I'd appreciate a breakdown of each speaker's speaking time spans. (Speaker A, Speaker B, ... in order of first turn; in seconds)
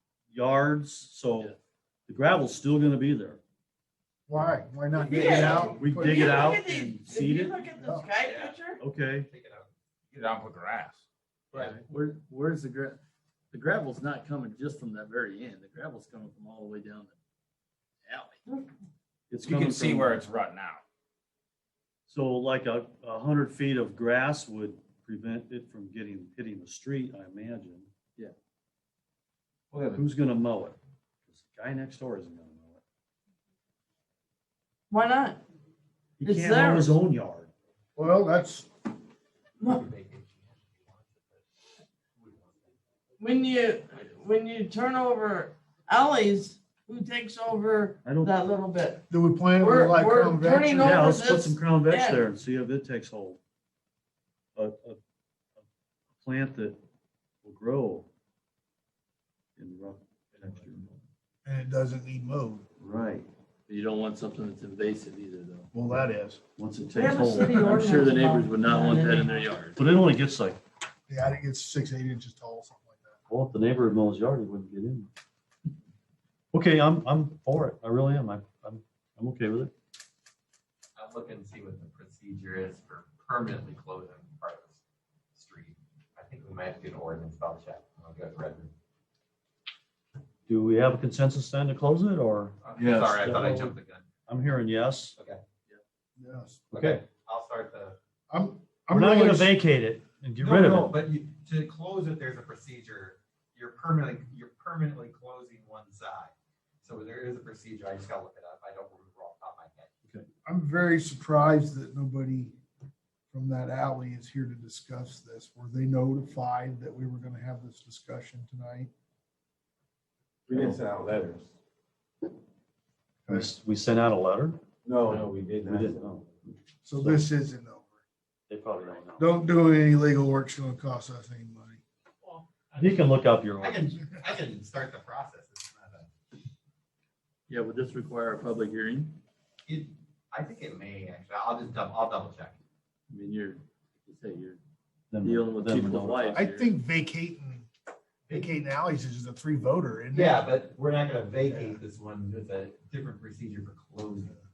Speaker A: 0.3-1.5, 2.1-3.4, 5.7-7.6, 8.8-9.3, 19.3-20.2, 22.1-27.9, 29.9-32.8, 36.2-37.5, 48.0-48.3, 50.7-53.4, 54.5-55.0, 56.2-56.8, 57.4-58.1, 59.6-60.8, 62.8-63.2, 66.6-67.8, 69.8-70.6, 73.3-75.1, 76.5-79.7, 90.5-92.6, 93.2-93.7, 94.3-95.1, 96.7-97.0, 98.9-100.9, 123.3-127.3, 128.5-129.3, 132.7-134.0, 145.1-146.4
Speaker B: 4.3-6.5, 7.8-8.1, 38.0-38.7, 49.1-51.0, 61.4-62.7, 65.7-66.4, 71.1-73.2, 96.2-96.6, 98.3-99.5, 110.5-112.6, 113.3-118.9, 126.8-128.0, 129.2-131.8, 146.3-147.7, 148.3-150.4
Speaker C: 5.0-5.8, 8.2-8.6, 9.2-9.7, 11.5-11.8, 39.6-41.4, 42.2-42.7, 81.0-84.8, 85.3-88.7, 92.6-94.1, 95.2-95.4, 96.7-98.0, 100.4-109.9, 132.2-132.6, 133.6-136.1, 139.7-142.6, 150.1-154.4
Speaker D: 5.1-8.8, 34.9-35.4, 36.2-36.9, 43.2-49.0, 49.6-52.2, 66.9-69.6
Speaker E: 10.1-11.0, 19.4-20.8
Speaker F: 11.5-13.0, 13.5-17.2, 18.1-18.4, 63.7-65.7, 67.4-69.8, 92.8-93.3, 137.5-139.2, 143.1-144.6, 145.2-146.8
Speaker G: 29.7-30.0, 120.5-121.5, 124.8-126.0